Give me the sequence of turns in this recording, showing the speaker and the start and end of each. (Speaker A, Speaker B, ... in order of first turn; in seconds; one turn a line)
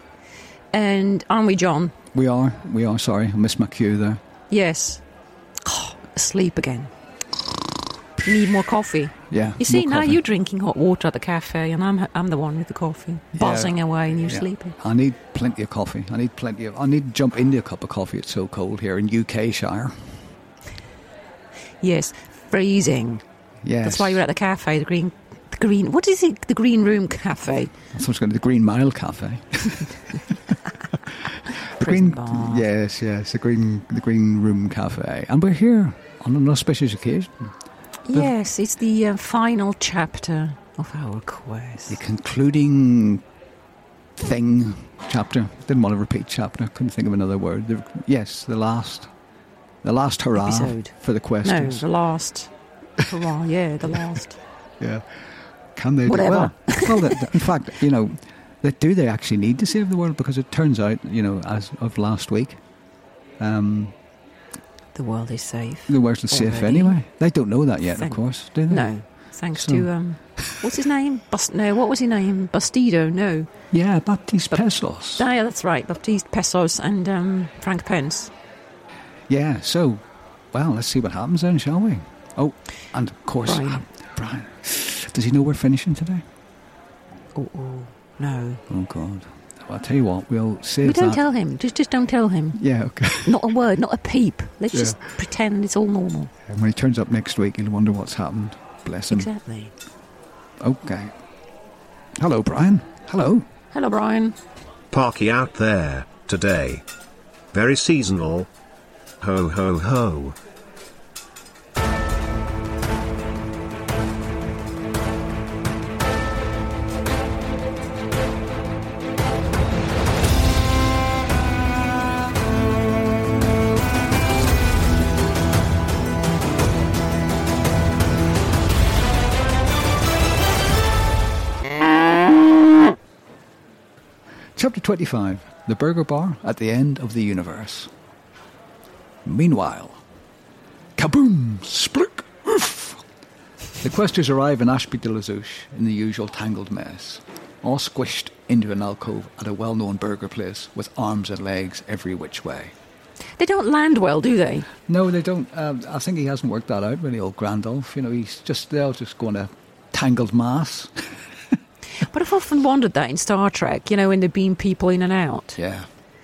Speaker A: 0.7-1.9
Speaker B: 2.1-4.2
Speaker A: 4.5-5.0
Speaker A: 5.6-6.9
Speaker A: 8.2-14.8
Speaker B: 9.3-10.2
Speaker B: 13.3-20.1
Speaker A: 21.8-23.2
Speaker B: 23.6-24.2
Speaker A: 23.8-27.7
Speaker B: 27.9-30.2
Speaker B: 31.4-37.5
Speaker A: 31.8-32.6
Speaker A: 38.1-42.0
Speaker B: 41.9-43.2
Speaker B: 44.1-49.1
Speaker B: 49.8-51.9
Speaker A: 50.4-50.9
Speaker A: 51.4-54.4
Speaker B: 54.8-55.0
Speaker B: 55.8-62.6
Speaker A: 56.0-57.2
Speaker B: 63.4-63.9
Speaker A: 64.9-67.0
Speaker B: 65.9-68.9
Speaker A: 68.7-73.5
Speaker B: 69.5-69.9
Speaker B: 73.7-75.2
Speaker A: 75.2-78.3
Speaker B: 79.3-86.2
Speaker A: 83.5-83.8
Speaker A: 87.3-88.6
Speaker B: 88.7-91.2
Speaker A: 90.8-92.6
Speaker B: 92.5-93.5
Speaker A: 93.2-96.3
Speaker B: 94.7-95.0
Speaker B: 96.5-99.3
Speaker A: 99.1-99.7
Speaker B: 100.6-101.1
Speaker B: 102.2-103.5
Speaker A: 103.7-104.3
Speaker C: 104.9-106.8
Speaker C: 107.5-108.5
Speaker C: 109.2-110.4
Speaker B: 134.6-137.9
Speaker B: 139.2-140.0
Speaker B: 141.0-143.0
Speaker B: 143.8-152.7
Speaker A: 153.4-154.7
Speaker B: 154.8-160.9
Speaker A: 162.0-165.6
Speaker B: 165.6-165.9